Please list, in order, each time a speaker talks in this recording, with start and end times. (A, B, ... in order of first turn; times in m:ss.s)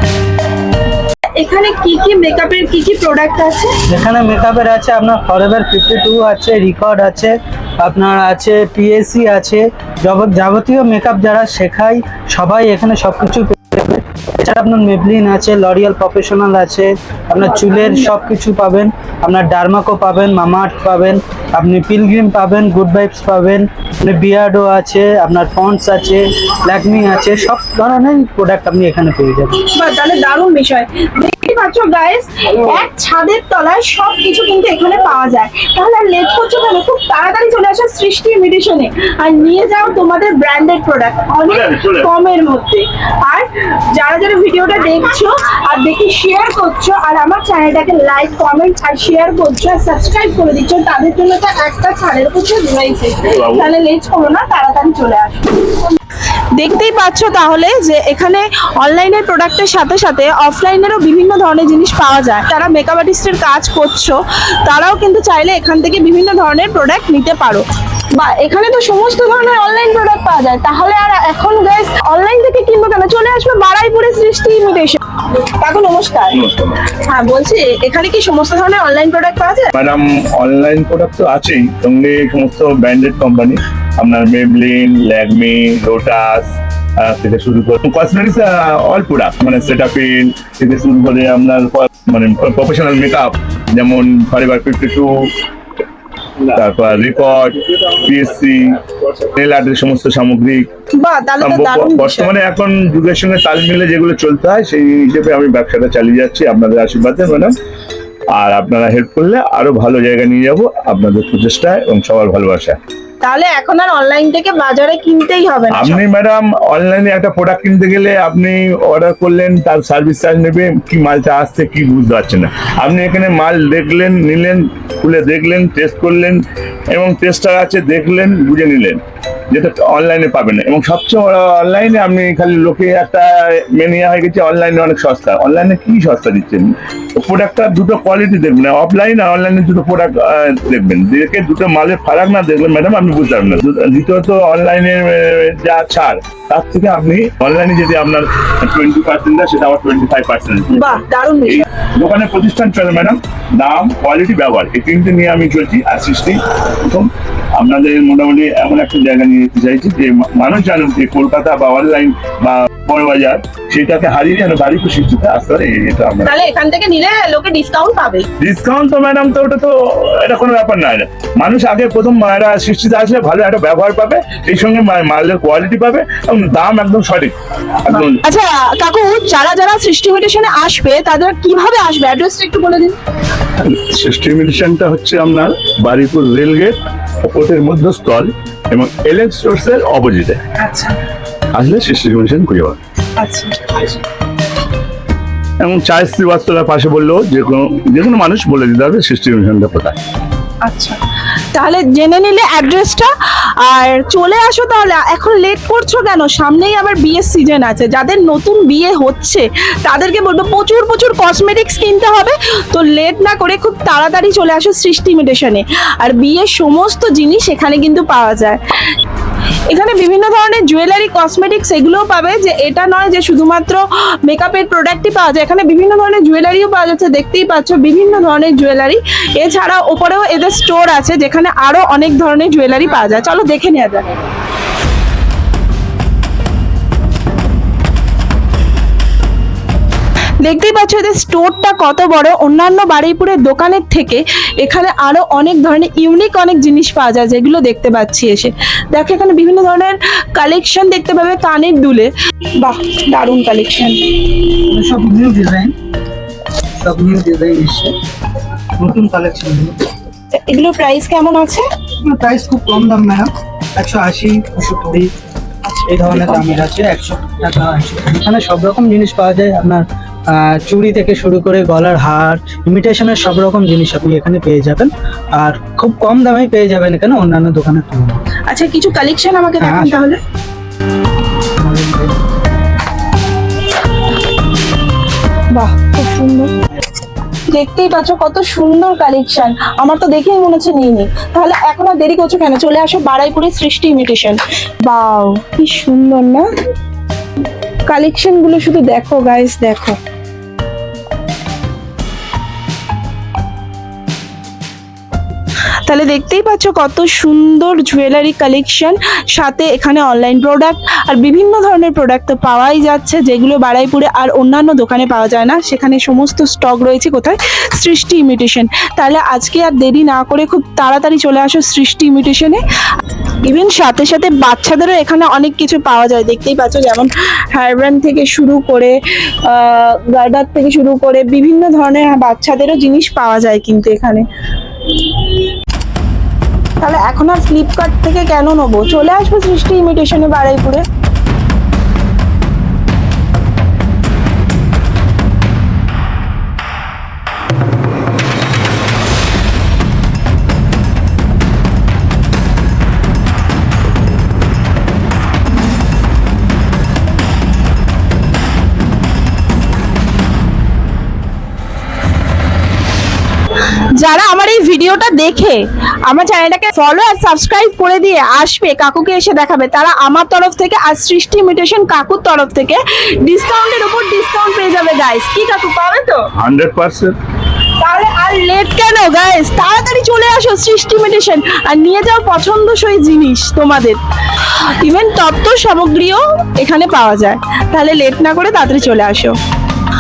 0:01.4-0:03.8 A
0:03.9-0:29.6 B
0:29.7-0:55.8 A
0:41.5-0:42.1 C
0:53.3-0:53.7 C
0:56.6-1:19.7 A
1:16.3-1:16.8 C
1:19.7-1:35.3 C
1:36.4-1:40.7 C
1:40.9-1:42.3 A
1:41.4-1:47.6 C
1:48.3-1:52.8 C
1:53.2-1:56.0 A
1:55.7-2:06.4 C
2:06.9-2:46.3 C
2:30.7-2:31.7 A
2:46.2-2:48.3 A
2:48.4-2:58.2 C
2:57.9-3:03.0 A
3:03.6-3:10.5 C
3:10.6-3:11.0 A
3:11.5-3:12.8 C
3:13.2-3:13.9 A
3:15.6-3:20.0 C
3:20.6-3:21.0 A
3:21.5-3:38.6 A
3:39.7-3:54.1 A
4:00.4-4:14.2 A
4:14.7-4:15.7 B
4:16.8-4:18.0 B
4:18.8-4:19.8 B
4:20.3-4:21.7 A
4:22.0-4:25.1 B
4:25.6-4:26.6 A
4:25.9-4:38.2 B
4:38.5-4:40.2 A
4:39.6-4:40.0 B
4:41.6-4:42.1 B
4:45.5-4:46.5 A
4:47.5-4:56.5 A
4:57.9-5:00.0 A
5:05.9-5:22.6 A
5:23.4-5:34.2 A
5:34.9-5:35.4 A
5:36.8-5:40.8 A
6:04.0-6:16.3 A
6:16.4-6:17.2 C
6:17.8-6:29.4 A